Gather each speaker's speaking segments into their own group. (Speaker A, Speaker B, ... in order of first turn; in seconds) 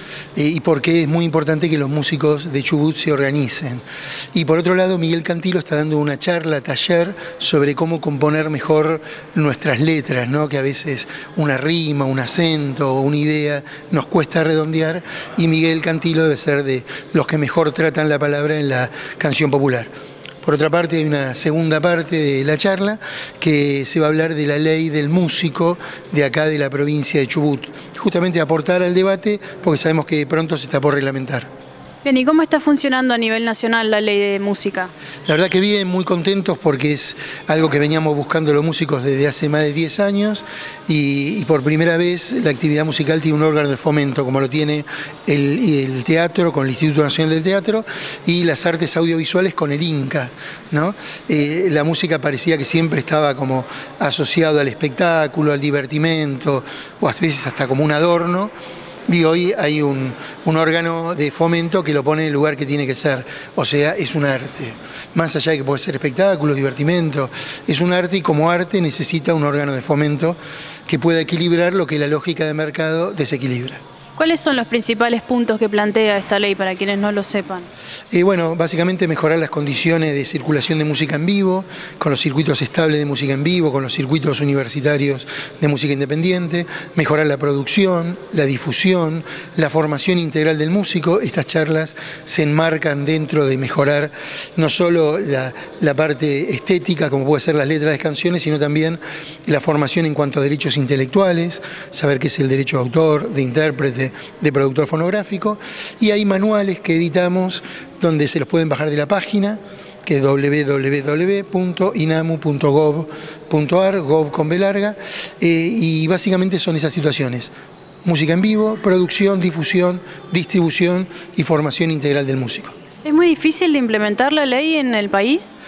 Speaker A: 0.3-3.8, 4.3-19.9, 20.4-31.5, 35.2-58.5, 59.1-73.8, 78.1-117.5, 118.0-122.8
Speaker B: 32.0-34.9, 74.2-77.7, 123.0-125.5